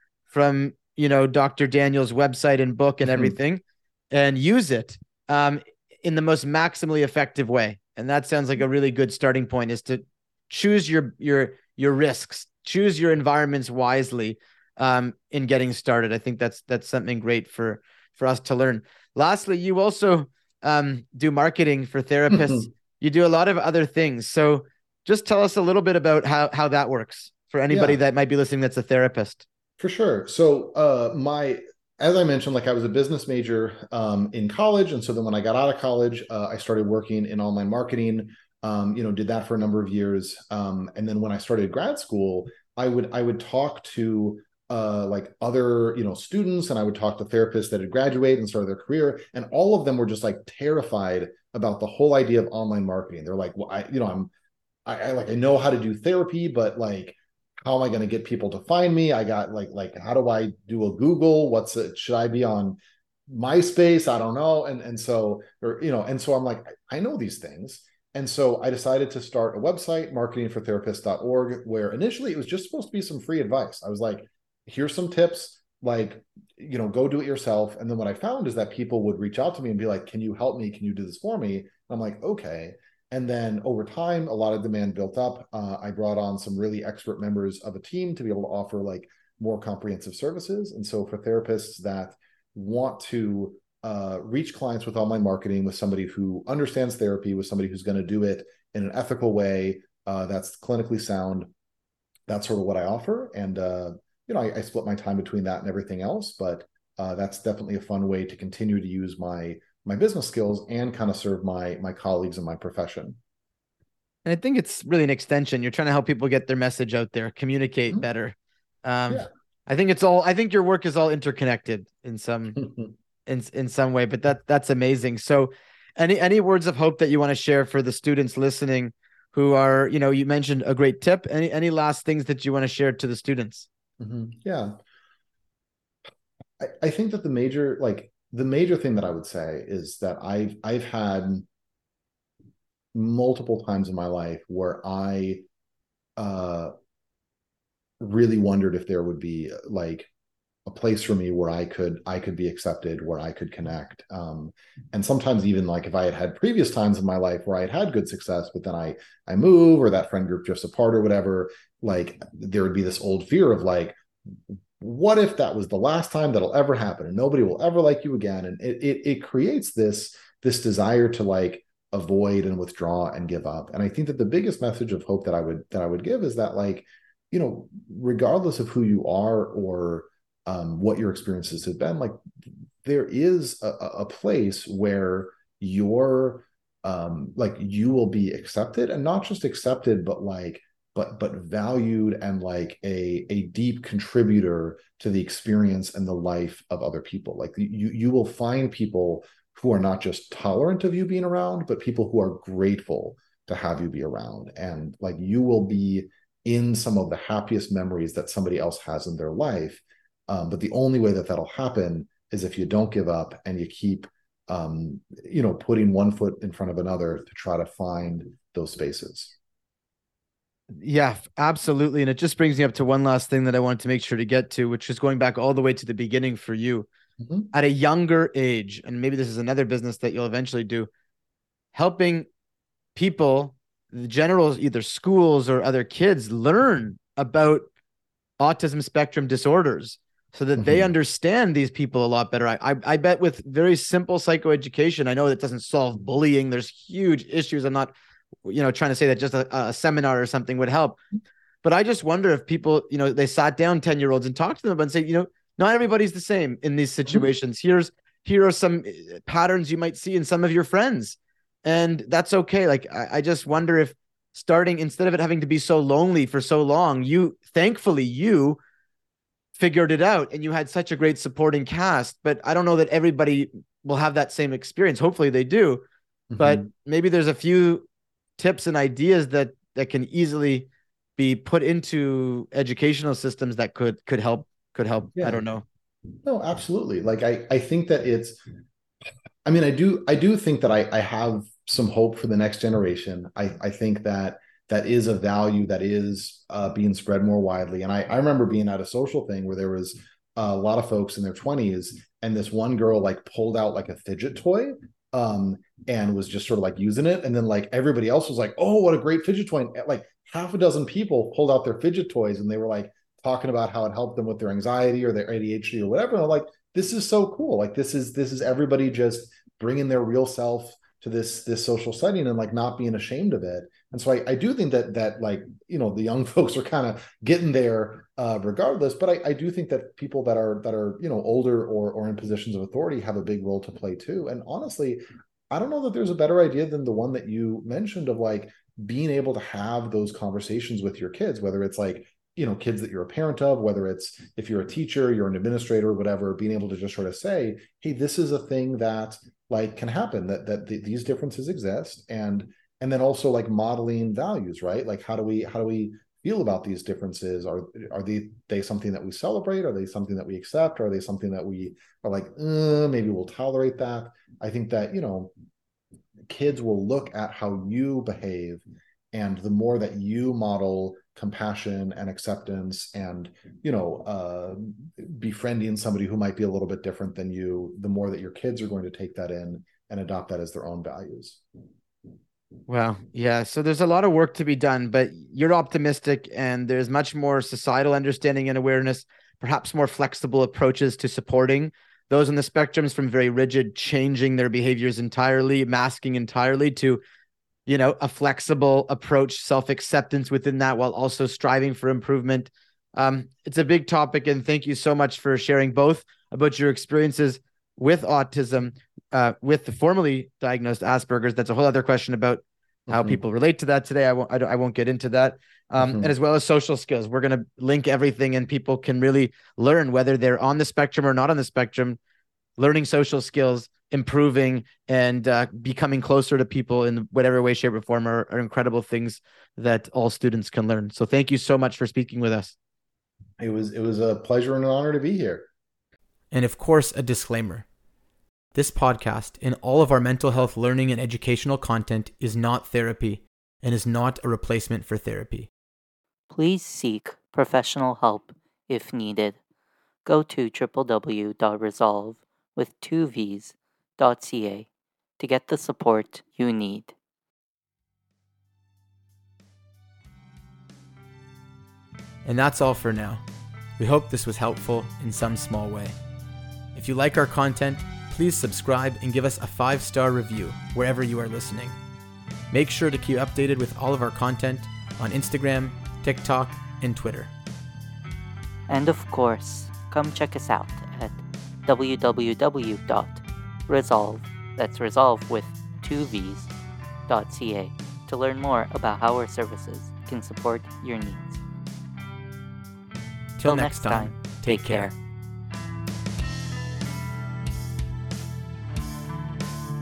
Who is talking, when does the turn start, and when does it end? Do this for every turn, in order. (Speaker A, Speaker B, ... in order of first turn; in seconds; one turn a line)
Speaker A: 0.3-29.4
Speaker B: 22.3-22.7
Speaker B: 27.7-28.0
Speaker B: 29.8-54.3
Speaker B: 54.9-101.5
Speaker B: 102.3-113.2
Speaker A: 114.2-122.6
Speaker B: 122.6-122.9
Speaker A: 123.2-133.7
Speaker B: 134.0-134.8
Speaker B: 136.6-141.4
Speaker B: 142.9-145.4
Speaker B: 146.2-146.7
Speaker B: 148.0-150.1
Speaker B: 150.7-182.2
Speaker B: 182.8-219.3
Speaker A: 220.8-226.9
Speaker B: 227.2-227.5
Speaker A: 227.5-230.9
Speaker A: 231.7-232.3
Speaker A: 232.9-237.7
Speaker A: 238.4-247.9
Speaker B: 240.6-240.9
Speaker A: 248.4-251.0
Speaker A: 251.6-268.6
Speaker A: 269.6-275.8
Speaker B: 276.3-276.7
Speaker A: 276.4-285.6
Speaker B: 286.2-288.4
Speaker B: 289.4-365.3
Speaker B: 366.3-381.4
Speaker A: 382.7-397.0
Speaker A: 397.6-422.0
Speaker B: 412.9-413.2
Speaker B: 415.8-416.1
Speaker A: 422.6-432.5
Speaker B: 433.4-435.5
Speaker A: 436.3-437.7
Speaker A: 438.5-445.5
Speaker C: 446.3-449.4
Speaker C: 450.0-454.7
Speaker C: 455.2-456.9
Speaker A: 462.2-463.2
Speaker A: 463.8-465.9
Speaker A: 466.7-471.8
Speaker A: 472.5-477.3
Speaker C: 478.7-486.5
Speaker C: 487.1-491.4
Speaker A: 493.4-494.9
Speaker C: 493.4-494.9